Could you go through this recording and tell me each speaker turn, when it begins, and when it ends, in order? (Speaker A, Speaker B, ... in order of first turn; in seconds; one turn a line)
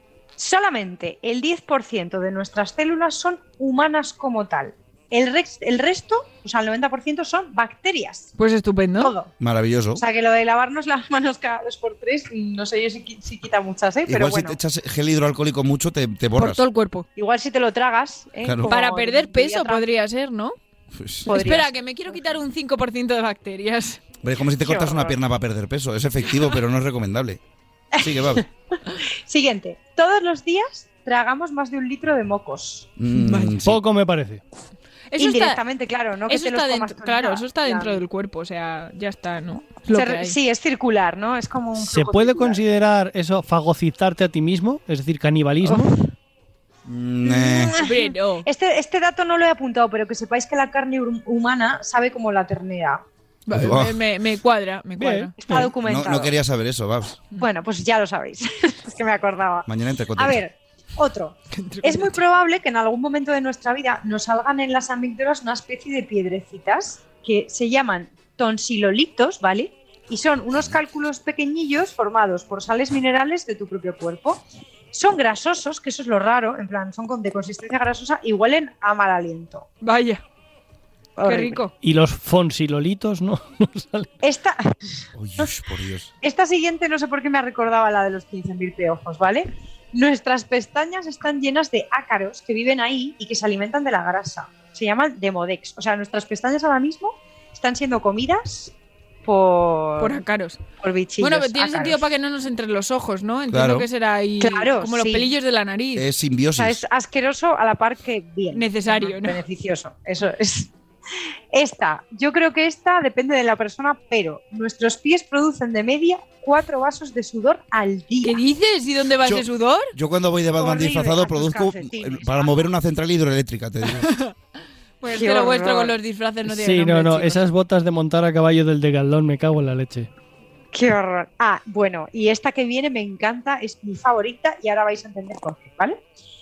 Speaker A: 0.4-8.3
Speaker B: 8.4-9.2
Speaker A: 9.0-9.3
Speaker C: 9.4-10.0
Speaker A: 9.9-14.6
Speaker C: 14.1-16.6
Speaker B: 16.4-17.1
Speaker A: 17.2-19.9
Speaker C: 18.4-18.8
Speaker B: 18.7-20.6
Speaker C: 20.9-21.3
Speaker B: 21.3-24.0
Speaker A: 21.3-22.4
Speaker C: 24.2-27.4
Speaker A: 24.6-25.2
Speaker C: 28.0-28.4
Speaker A: 28.0-28.4
Speaker A: 28.9-32.9
Speaker C: 33.0-33.8
Speaker B: 33.1-33.6
Speaker D: 33.6-34.4
Speaker B: 35.1-35.6
Speaker A: 35.2-38.0
Speaker B: 36.3-40.4
Speaker A: 39.9-42.6
Speaker D: 41.8-46.0
Speaker A: 45.6-46.0
Speaker C: 46.9-47.8
Speaker A: 47.3-53.0
Speaker B: 47.8-48.5
Speaker B: 53.5-55.3
Speaker C: 53.5-54.0
Speaker D: 55.0-55.7
Speaker A: 55.4-56.4
Speaker C: 55.8-57.2
Speaker A: 57.4-79.7
Speaker C: 59.7-60.4
Speaker B: 61.5-62.2
Speaker B: 79.8-80.2
Speaker A: 81.2-81.6
Speaker B: 81.2-81.7
Speaker D: 81.8-84.1
Speaker A: 84.2-85.5
Speaker C: 85.2-86.1
Speaker A: 86.2-100.2
Speaker B: 100.0-100.6
Speaker A: 100.8-102.0
Speaker B: 101.2-106.1
Speaker C: 103.5-103.9
Speaker A: 104.4-105.3
Speaker C: 106.0-106.8
Speaker A: 106.6-110.7
Speaker B: 108.5-109.4
Speaker A: 111.5-118.4
Speaker B: 118.2-119.9
Speaker C: 119.2-124.1
Speaker A: 120.6-122.7
Speaker B: 124.0-124.3
Speaker B: 125.0-127.4
Speaker A: 125.1-126.0
Speaker D: 126.5-130.1
Speaker A: 130.7-136.0